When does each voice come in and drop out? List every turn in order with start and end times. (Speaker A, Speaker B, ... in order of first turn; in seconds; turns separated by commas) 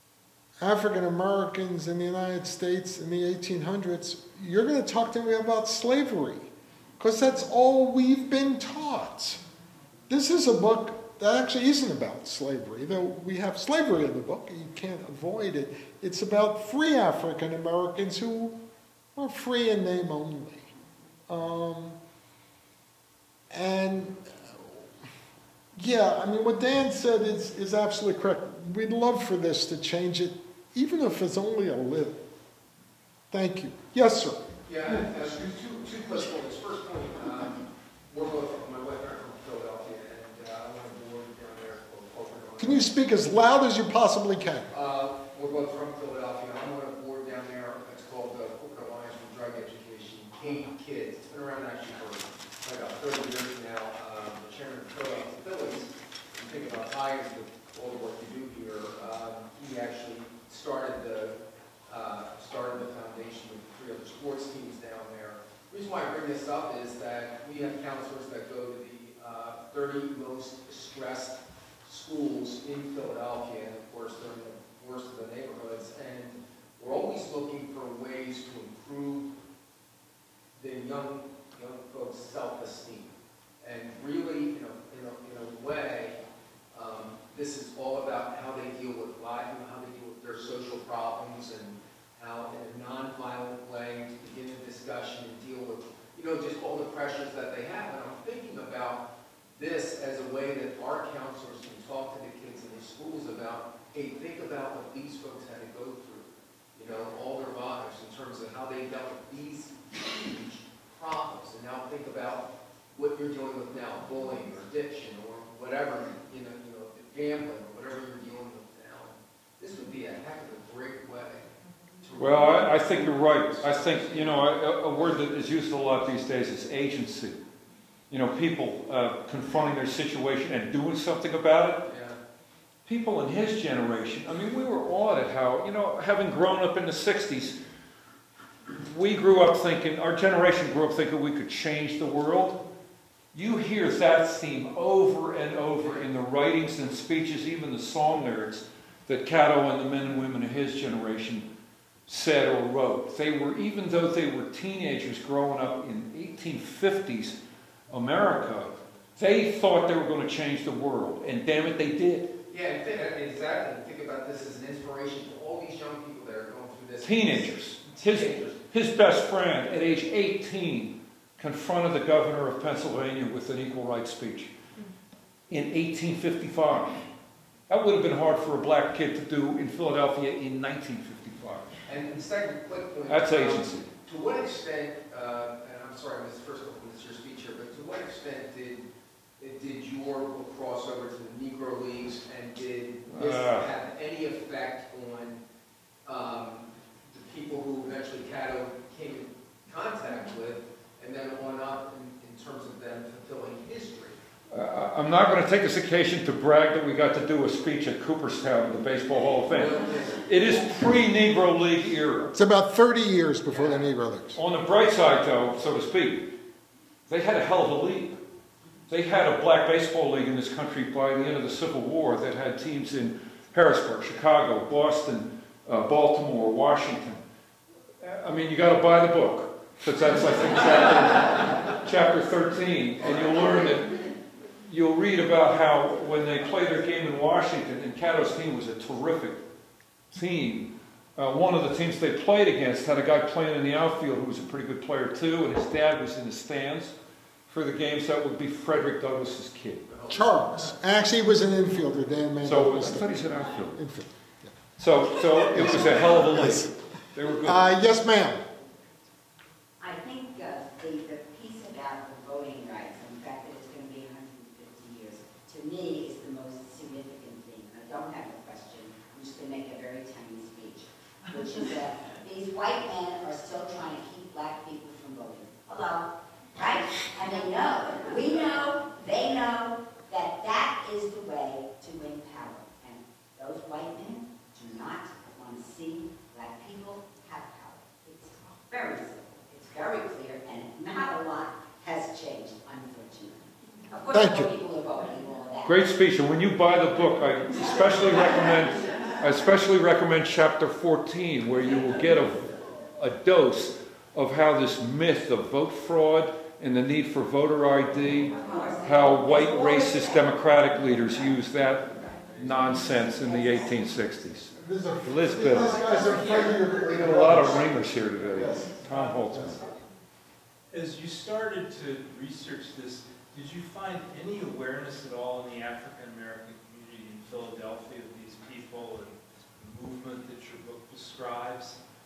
Speaker A: 0.6-9.4, Speaker A: 10.1-18.6, Speaker A: 19.1-20.7, Speaker A: 21.3-22.0, Speaker A: 23.5-24.9, Speaker A: 25.7-32.2, Speaker A: 33.3-34.5, Speaker B: 34.7-42.9, Speaker A: 42.6-44.8, Speaker B: 44.7-79.3, Speaker B: 80.5-86.2, Speaker B: 86.7-121.5, Speaker B: 122.0-125.3, Speaker C: 122.2-127.4, Speaker C: 128.1-131.9, Speaker B: 131.8-132.2, Speaker C: 132.9-137.6, Speaker C: 138.7-142.6, Speaker C: 143.3-151.5, Speaker C: 152.1-157.4, Speaker C: 157.9-162.3, Speaker B: 162.5-168.6, Speaker C: 167.0-174.5, Speaker C: 175.5-177.0, Speaker C: 177.7-181.7, Speaker B: 181.9-188.8, Speaker C: 183.1-183.9, Speaker B: 189.4-195.4, Speaker C: 193.1-193.7, Speaker B: 196.1-204.2, Speaker C: 204.5-212.3, Speaker B: 209.5-210.7, Speaker A: 212.3-214.4, Speaker B: 213.5-213.9, Speaker C: 214.3-216.3, Speaker C: 217.1-218.2, Speaker C: 218.9-227.2, Speaker C: 228.0-234.0, Speaker C: 234.7-239.4, Speaker C: 240.1-246.9, Speaker C: 247.5-249.9, Speaker B: 249.9-250.2, Speaker A: 250.1-254.5, Speaker C: 252.4-253.8, Speaker C: 254.8-257.7, Speaker A: 255.5-256.7, Speaker A: 257.4-258.4, Speaker D: 259.8-295.8, Speaker A: 294.1-294.5, Speaker C: 295.6-314.5, Speaker D: 308.3-308.9, Speaker A: 314.5-319.5, Speaker C: 315.0-319.6, Speaker E: 320.7-331.8